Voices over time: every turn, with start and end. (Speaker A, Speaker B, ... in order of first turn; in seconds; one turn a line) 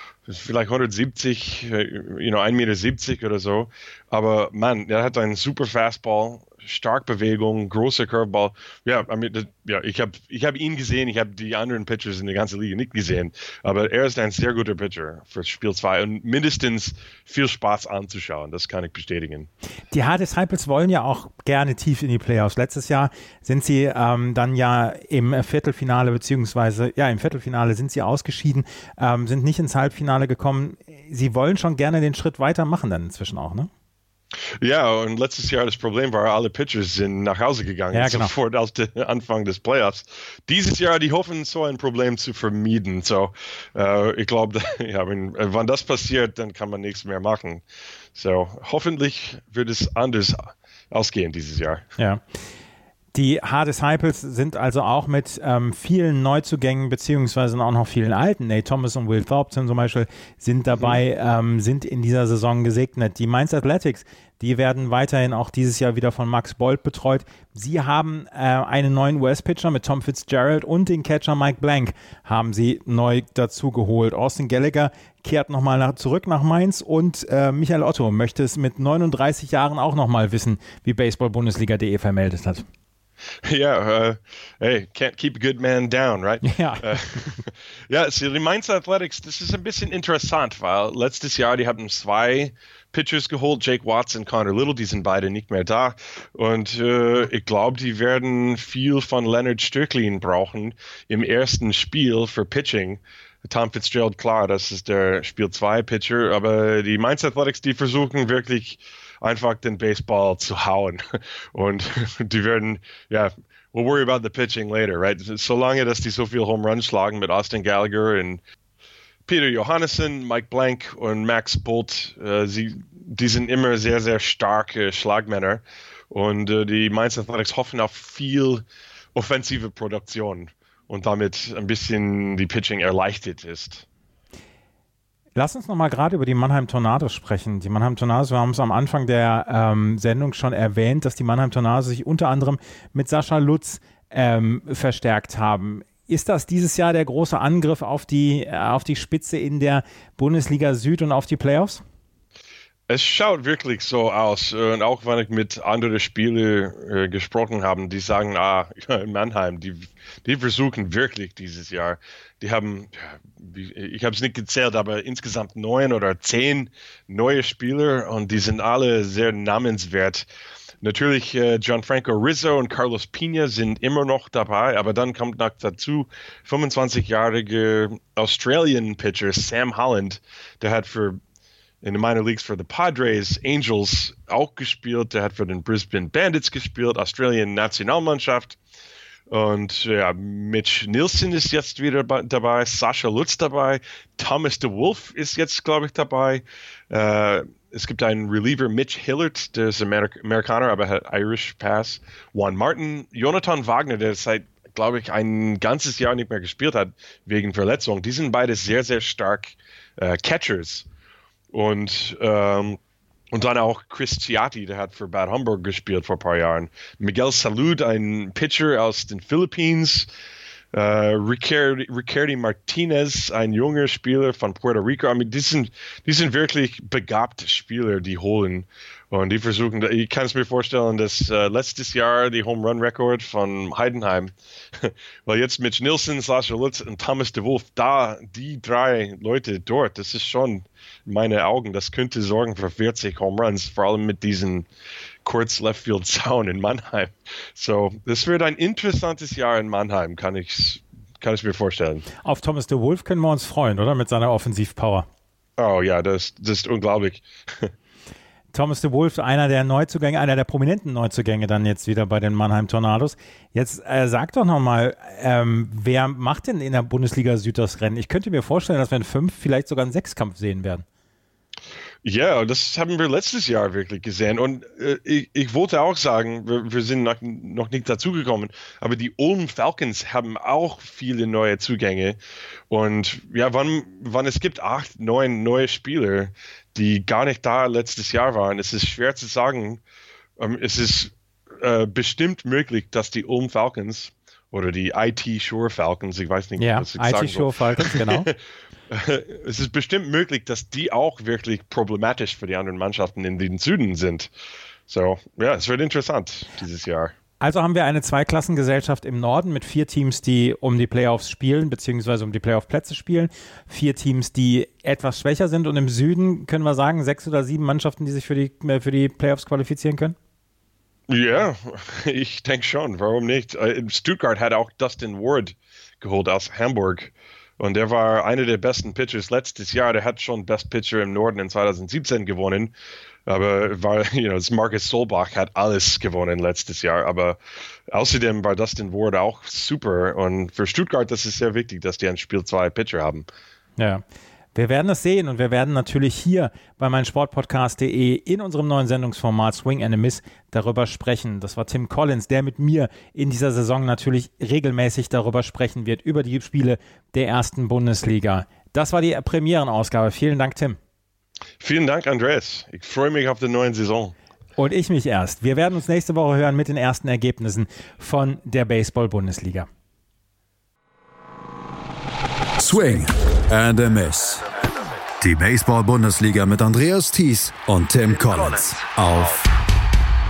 Speaker A: 0.3-19.5
Speaker B: 19.9-33.7
Speaker A: 34.6-47.6
Speaker B: 37.9-38.3
Speaker A: 48.1-51.8
Speaker B: 53.1-82.7
Speaker A: 60.8-61.0
Speaker A: 83.4-118.4
Speaker B: 86.4-87.4
Speaker A: 119.3-128.6
Speaker A: 129.2-133.8
Speaker B: 135.4-151.8
Speaker A: 152.9-170.3
Speaker A: 170.8-181.2
Speaker A: 181.8-188.6
Speaker A: 189.3-210.9
Speaker A: 211.5-212.8
Speaker A: 213.3-220.1
Speaker A: 220.7-244.7
Speaker A: 245.2-252.1
Speaker B: 252.2-255.1
Speaker A: 255.6-257.7
Speaker B: 258.5-270.9
Speaker A: 272.0-282.2
Speaker A: 282.7-289.8
Speaker A: 290.4-298.4
Speaker B: 296.6-298.3
Speaker A: 298.9-304.3
Speaker A: 304.9-307.1
Speaker B: 307.4-320.1
Speaker A: 321.1-332.7
Speaker A: 333.3-337.4
Speaker A: 337.9-343.3
Speaker B: 343.8-344.0
Speaker B: 344.6-360.8
Speaker A: 361.6-364.1
Speaker B: 364.6-369.7
Speaker C: 372.6-374.5
Speaker C: 375.2-379.5